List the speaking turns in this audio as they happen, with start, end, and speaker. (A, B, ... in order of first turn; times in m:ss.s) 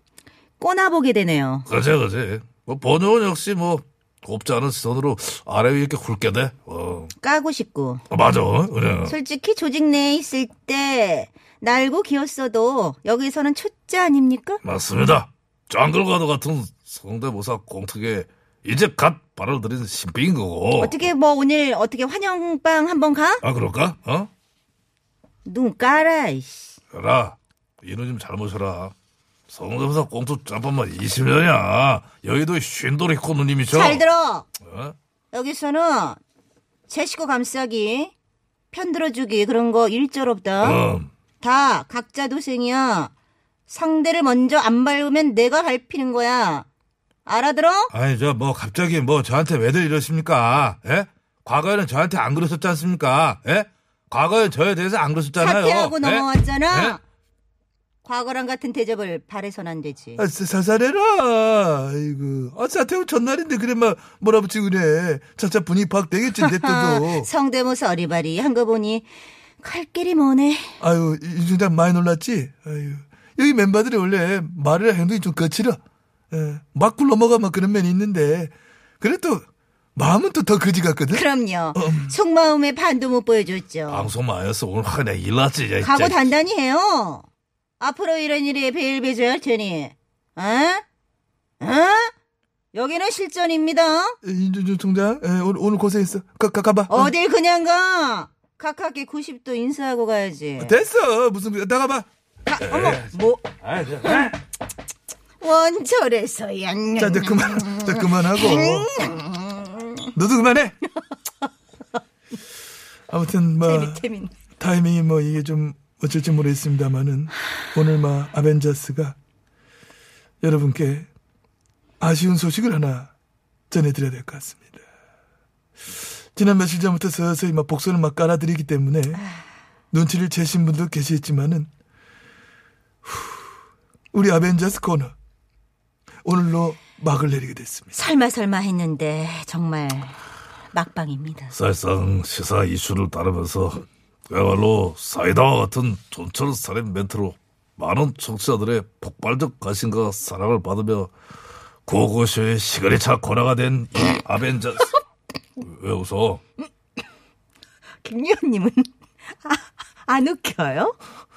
0:00.6-0:01.7 A
0:01.7-0:07.1 B
0:07.2-0:08.0 A
0:08.1-0:09.1 B
0:09.0-0:14.6 A
0:14.6-0:21.0 B
0:20.8-0:23.4 A
0:23.4-0:24.3 B
0:25.4-0:26.7 A
0:26.9-0:28.9 B
0:29.5-0:34.0 B
0:33.7-0:34.5 A
0:34.6-0:34.9 B
0:35.3-0:36.2 A
0:36.9-0:38.1 A
0:38.7-0:40.8 A
0:40.6-0:41.1 B
0:41.4-0:43.1 A
0:43.7-0:46.7 A
0:47.2-0:47.9 A
0:47.9-0:57.0 B
0:55.4-0:57.0 A
0:58.0-1:00.2 A
1:00.2-1:07.3 C
1:06.3-1:09.1 A
1:09.6-1:10.7 A
1:10.8-1:15.8 C
1:16.3-1:19.4 C
1:20.0-1:22.1 C
1:21.1-1:24.1 A
1:23.9-1:26.3 B
1:25.8-1:27.2 A
1:27.8-1:30.8 A
1:31.6-1:32.1 A
1:32.7-1:34.2 A
1:34.2-1:37.1 C
1:36.9-1:40.7 A
1:40.6-1:42.0 C
1:42.4-1:44.3 A
1:42.6-1:44.3 B
1:45.4-1:50.1 A
1:47.0-1:48.9 C
1:50.1-1:50.8 C
1:53.1-1:54.0 C
1:53.6-1:54.3 A
1:54.6-1:59.2 C
2:00.4-2:01.1 C
2:02.0-2:03.1 C
2:03.7-2:04.8 C
2:06.4-2:09.2 C
2:09.2-2:09.4 A
2:09.9-2:11.7 C
2:14.1-2:15.1 C
2:16.2-2:17.9 C
2:17.9-2:20.2 A
2:20.7-2:21.5 A
2:21.5-2:31.1 B
2:31.8-2:34.9 B
2:35.6-2:36.4 B
2:38.0-2:38.9 A
2:39.4-2:41.0 A